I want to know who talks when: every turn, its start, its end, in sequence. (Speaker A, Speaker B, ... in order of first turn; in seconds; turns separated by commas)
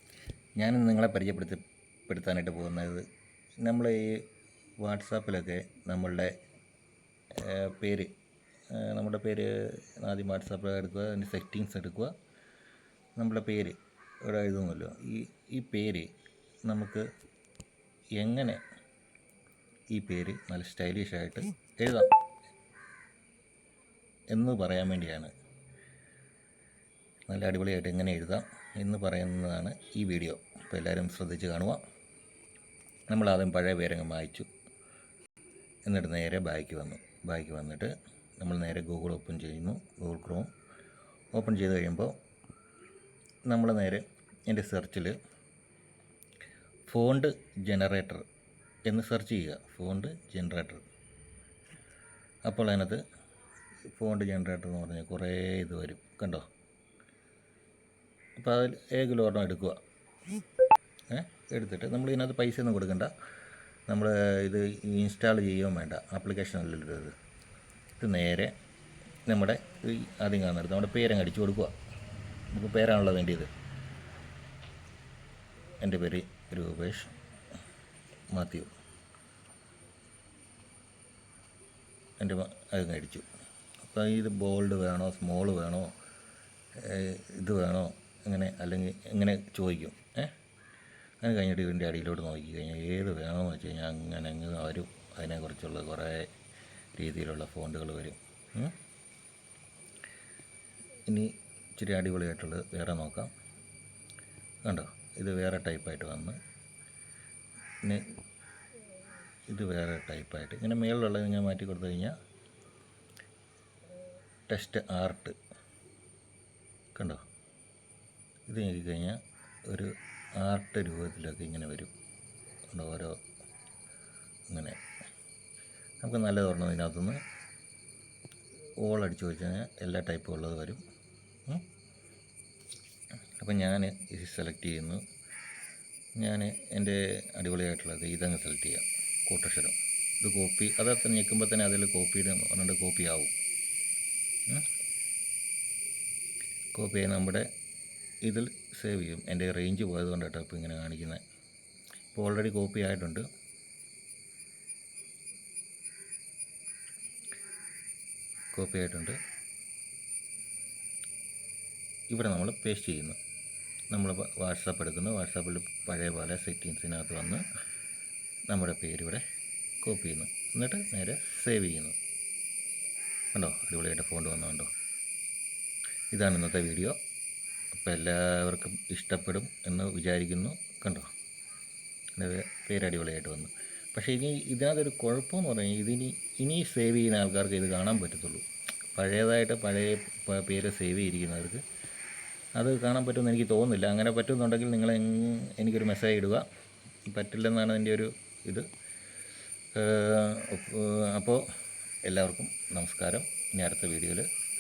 Speaker A: 0.6-3.0, Speaker A: 3.6-4.3, Speaker A: 4.8-6.3, Speaker A: 7.3-8.1, Speaker A: 8.7-12.1, Speaker A: 13.2-16.1, Speaker A: 16.6-17.1, Speaker A: 18.2-18.6, Speaker A: 19.9-22.1, Speaker A: 24.3-25.3, Speaker A: 27.3-31.8, Speaker A: 33.1-34.5, Speaker A: 35.9-40.5, Speaker A: 41.3-42.1, Speaker A: 43.5-45.2, Speaker A: 46.9-48.3, Speaker A: 48.9-50.9, Speaker A: 52.5-53.0, Speaker A: 53.9-56.5, Speaker A: 58.4-59.8, Speaker A: 61.1-63.1, Speaker A: 63.9-67.1, Speaker A: 68.0-68.5, Speaker A: 69.3-71.8, Speaker A: 72.5-73.5, Speaker A: 75.8-77.1, Speaker A: 78.3-78.7, Speaker A: 82.2-83.3, Speaker A: 83.8-85.9, Speaker A: 86.8-90.3, Speaker A: 91.2-96.3, Speaker A: 97.0-98.8, Speaker A: 101.1-103.3, Speaker A: 104.7-106.4, Speaker A: 107.8-108.2, Speaker A: 109.5-112.2, Speaker A: 114.5-115.4, Speaker A: 117.0-117.2, Speaker A: 118.5-121.9, Speaker A: 122.7-123.2, Speaker A: 124.5-124.8, Speaker A: 126.0-127.2, Speaker A: 128.8-130.8, Speaker A: 133.4-135.0, Speaker A: 136.2-143.3, Speaker A: 146.8-147.5, Speaker A: 148.2-151.2, Speaker A: 152.2-153.3, Speaker A: 158.5-159.2, Speaker A: 162.1-163.2, Speaker A: 163.9-167.4, Speaker A: 168.5-169.2, Speaker A: 169.8-172.0, Speaker A: 173.3-174.7, Speaker A: 176.1-177.0, Speaker A: 177.8-181.1, Speaker A: 182.2-191.6, Speaker A: 192.6-196.4, Speaker A: 197.1-198.7, Speaker A: 199.8-201.5, Speaker A: 202.1-204.3